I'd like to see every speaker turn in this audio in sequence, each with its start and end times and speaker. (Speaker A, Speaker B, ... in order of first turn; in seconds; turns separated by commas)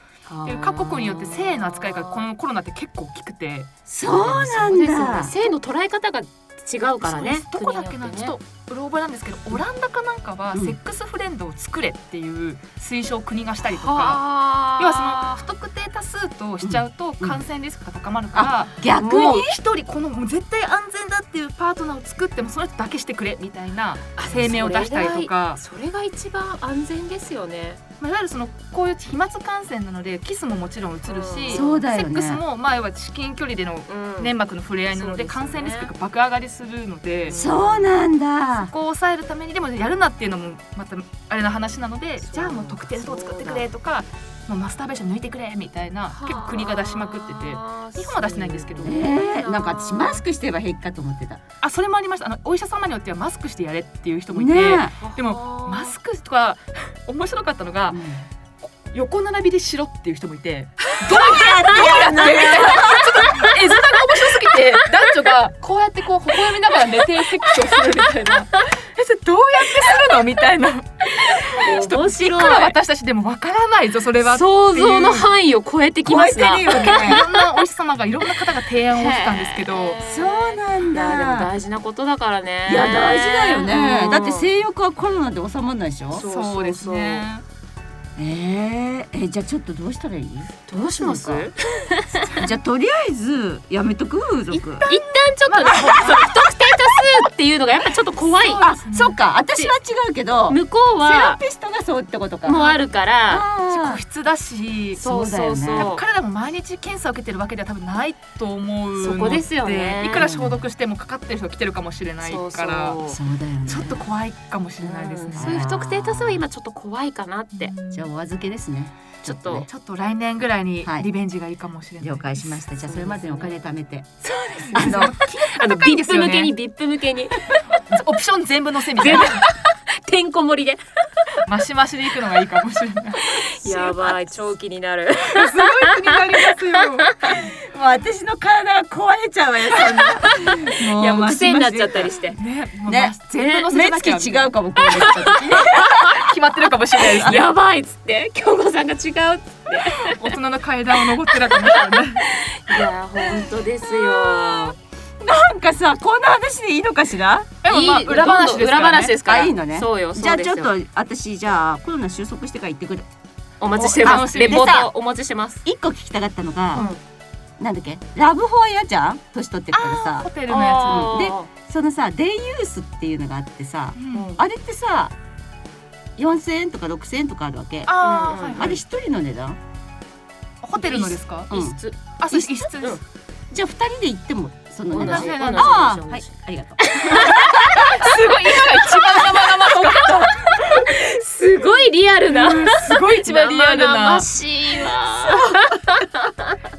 Speaker A: 0.3-2.2, Speaker B: 0.5-3.7, Speaker C: 3.9-5.3, Speaker A: 4.1-8.4, Speaker B: 7.0-25.6, Speaker A: 13.7-15.4, Speaker C: 16.6-17.4, Speaker C: 18.3-19.6, Speaker A: 24.2-27.8, Speaker B: 28.0-37.4, Speaker A: 31.1-31.8, Speaker C: 31.5-32.4, Speaker A: 33.9-34.3, Speaker A: 34.9-35.9, Speaker A: 37.3-37.9, Speaker C: 37.3-38.7, Speaker B: 38.6-49.0, Speaker A: 42.2-43.7, Speaker A: 46.1-50.2, Speaker C: 48.8-51.4, Speaker B: 51.6-58.0, Speaker C: 54.3-55.0, Speaker A: 55.0-55.9, Speaker C: 57.9-58.2, Speaker B: 58.6-75.3, Speaker C: 61.0-63.4, Speaker A: 62.7-63.5, Speaker A: 66.7-68.6, Speaker A: 71.1-72.8, Speaker A: 74.2-77.4, Speaker C: 76.0-77.2, Speaker B: 76.7-80.0, Speaker A: 78.9-84.5, Speaker C: 80.0-81.5, Speaker C: 82.7-86.2, Speaker A: 86.1-87.3, Speaker B: 86.2-87.4, Speaker C: 88.2-91.5, Speaker A: 90.7-92.4, Speaker C: 92.4-94.9, Speaker B: 94.5-96.3, Speaker A: 94.8-98.7, Speaker C: 95.8-96.3, Speaker B: 98.2-99.2, Speaker C: 98.6-102.7, Speaker A: 100.5-101.4, Speaker A: 102.4-103.5, Speaker B: 102.5-102.8, Speaker C: 103.3-104.0, Speaker B: 103.7-105.0, Speaker C: 105.0-105.9, Speaker A: 105.0-106.0, Speaker B: 105.8-113.0, Speaker A: 109.0-110.3, Speaker C: 110.1-110.6, Speaker A: 112.2-113.2, Speaker C: 113.1-114.0, Speaker B: 113.7-115.7, Speaker A: 114.8-117.7, Speaker C: 115.4-116.4, Speaker B: 117.5-118.1, Speaker C: 117.9-119.7, Speaker A: 119.2-119.7, Speaker B: 119.7-122.6, Speaker C: 122.0-124.1, Speaker A: 122.8-123.5, Speaker B: 124.2-126.5, Speaker A: 124.6-127.7, Speaker C: 124.7-125.1, Speaker B: 127.7-129.5, Speaker A: 129.0-131.4, Speaker B: 131.4-134.2, Speaker A: 133.2-137.4, Speaker B: 135.3-137.4, Speaker C: 137.4-142.1, Speaker A: 140.3-142.4, Speaker B: 142.3-147.5, Speaker C: 142.9-146.2, Speaker A: 143.4-143.6, Speaker A: 144.9-145.8, Speaker C: 147.0-147.4, Speaker A: 147.2-150.3, Speaker B: 150.0-152.3, Speaker A: 151.5-154.8, Speaker C: 153.8-157.6, Speaker B: 157.6-159.2, Speaker A: 157.7-160.7, Speaker C: 159.2-163.1, Speaker A: 163.6-165.6, Speaker B: 163.8-164.9, Speaker C: 164.0-164.9, Speaker C: 165.7-166.9, Speaker A: 166.7-167.0, Speaker C: 167.6-170.3, Speaker B: 169.7-171.3, Speaker A: 170.5-171.5, Speaker C: 170.8-175.1, Speaker B: 174.0-174.4, Speaker A: 174.1-174.4, Speaker C: 176.2-178.0, Speaker B: 177.9-178.8, Speaker A: 178.0-178.8, Speaker C: 178.6-179.6, Speaker B: 180.6-181.6, Speaker A: 180.8-182.0, Speaker C: 181.5-181.8, Speaker B: 182.2-183.0, Speaker C: 183.5-187.9, Speaker A: 184.9-186.3, Speaker B: 185.0-185.9, Speaker A: 186.8-196.6, Speaker B: 187.3-190.8, Speaker B: 192.3-194.9